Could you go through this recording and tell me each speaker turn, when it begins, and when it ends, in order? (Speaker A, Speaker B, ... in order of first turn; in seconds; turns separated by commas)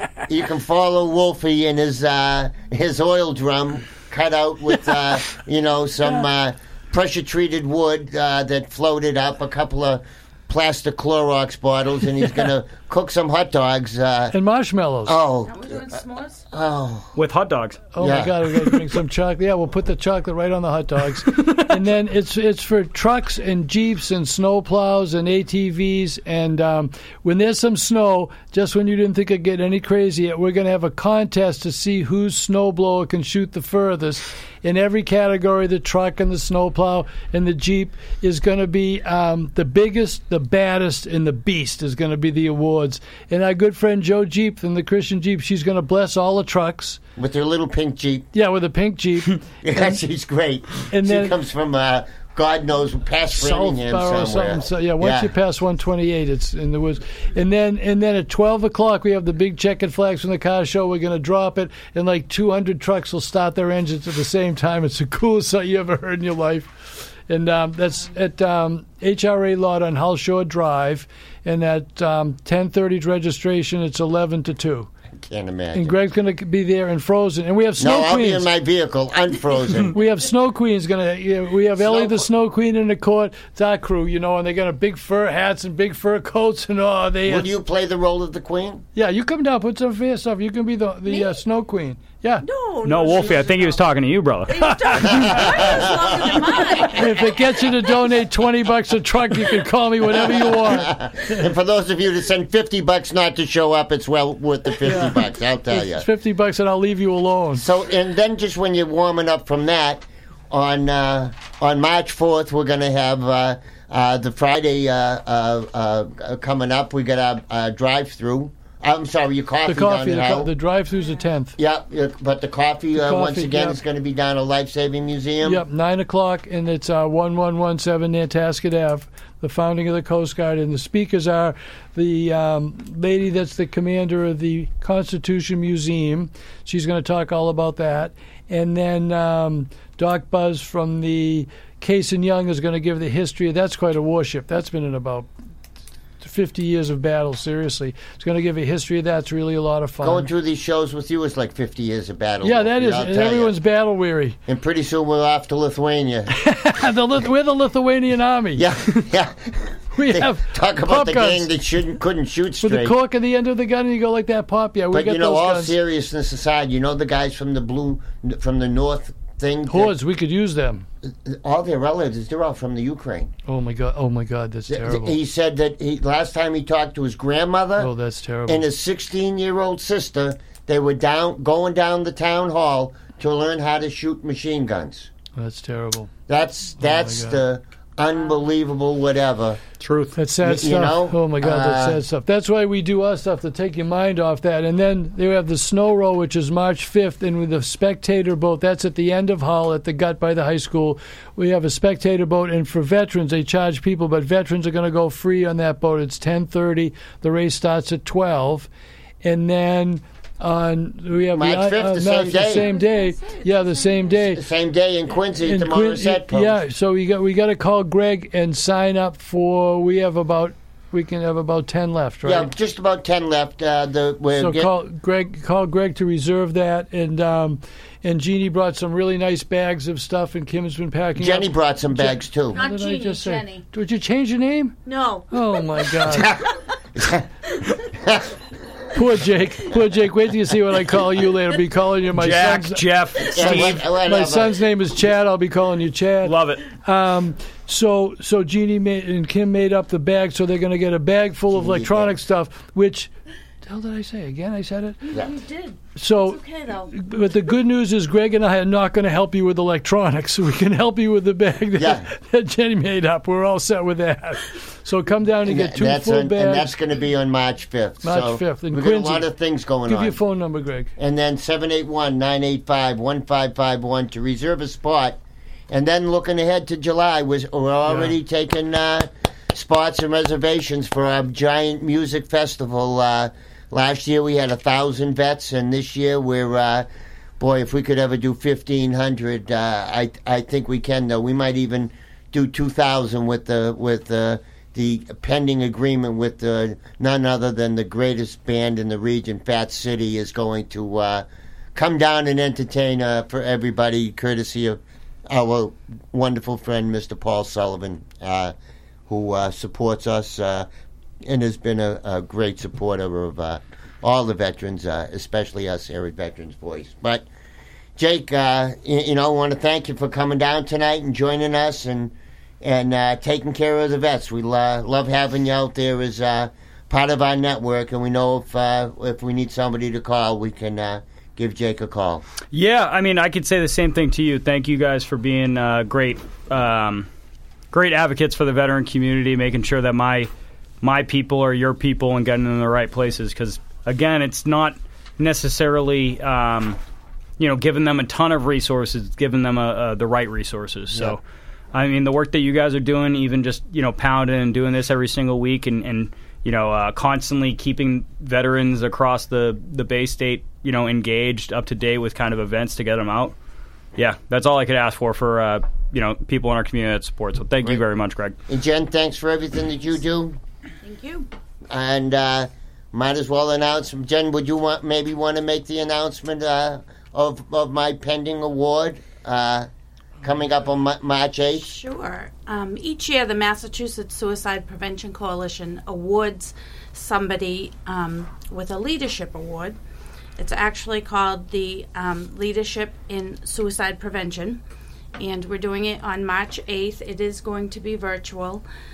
Speaker A: 0.3-14.3, Speaker B: 12.2-12.5, Speaker B: 14.3-15.2, Speaker A: 15.0-16.0, Speaker C: 15.5-16.4, Speaker A: 16.5-17.1, Speaker D: 17.2-17.8, Speaker B: 17.9-47.0, Speaker A: 18.0-18.4, Speaker A: 47.2-48.3, Speaker B: 48.3-50.0, Speaker A: 49.6-55.3, Speaker B: 50.9-51.4, Speaker B: 53.3-74.9, Speaker A: 75.1-76.0, Speaker B: 75.8-78.5, Speaker A: 77.8-80.0, Speaker B: 79.9-87.5, Speaker A: 81.8-82.3, Speaker A: 87.3-88.8, Speaker B: 89.0-92.5, Speaker C: 91.1-91.4, Speaker C: 92.4-93.8, Speaker D: 92.8-94.6, Speaker C: 94.5-98.1, Speaker B: 94.6-95.8, Speaker A: 95.0-96.5, Speaker B: 96.8-101.4, Speaker A: 100.1-106.1, Speaker B: 104.8-107.7, Speaker A: 107.6-120.5, Speaker B: 119.7-121.6, Speaker A: 121.6-125.6, Speaker B: 122.9-123.8, Speaker B: 125.4-145.3, Speaker B: 146.2-150.3, Speaker A: 150.0-153.6, Speaker B: 152.4-154.4, Speaker A: 154.5-156.3, Speaker B: 156.3-158.7, Speaker A: 158.6-162.9, Speaker B: 160.0-161.5, Speaker B: 162.6-165.8, Speaker A: 164.9-169.9, Speaker B: 169.7-170.9, Speaker A: 171.1-173.3, Speaker B: 173.5-175.2, Speaker A: 174.7-177.9, Speaker B: 177.8-178.6, Speaker A: 178.5-185.1, Speaker B: 185.4-186.1, Speaker A: 186.3-189.6, Speaker B: 186.8-187.4, Speaker D: 189.8-190.2, Speaker B: 190.2-208.7, Speaker A: 190.4-192.0, Speaker B: 209.2-214.4, Speaker A: 211.3-212.7, Speaker C: 212.4-214.4, Speaker A: 214.3-216.6, Speaker B: 215.4-222.5, Speaker A: 222.2-224.7, Speaker B: 224.4-234.8, Speaker A: 231.2-232.6, Speaker C: 232.5-233.6, Speaker C: 234.9-236.2, Speaker B: 235.3-236.3, Speaker A: 236.1-237.2, Speaker B: 238.9-253.1, Speaker D: 242.2-243.8, Speaker A: 243.2-244.6, Speaker D: 246.2-246.7, Speaker A: 251.5-252.2, Speaker B: 253.6-255.1, Speaker C: 255.0-256.9, Speaker B: 256.0-266.8, Speaker A: 261.8-262.1, Speaker A: 265.4-270.2, Speaker B: 268.0-269.3, Speaker B: 269.9-270.9, Speaker A: 271.0-286.9, Speaker B: 277.9-278.1, Speaker A: 287.4-308.5, Speaker A: 309.1-310.7, Speaker A: 311.2-317.3, Speaker A: 318.0-332.2, Speaker D: 332.5-337.1, Speaker D: 337.7-340.3, Speaker D: 340.8-346.8, Speaker D: 347.4-351.2, Speaker A: 350.9-351.2, Speaker D: 351.7-363.4, Speaker D: 364.0-368.4, Speaker A: 368.5-370.4, Speaker C: 370.8-371.3, Speaker A: 371.7-379.7, Speaker A: 380.2-381.8, Speaker C: 381.6-389.8, Speaker C: 390.4-394.6, Speaker C: 395.2-398.6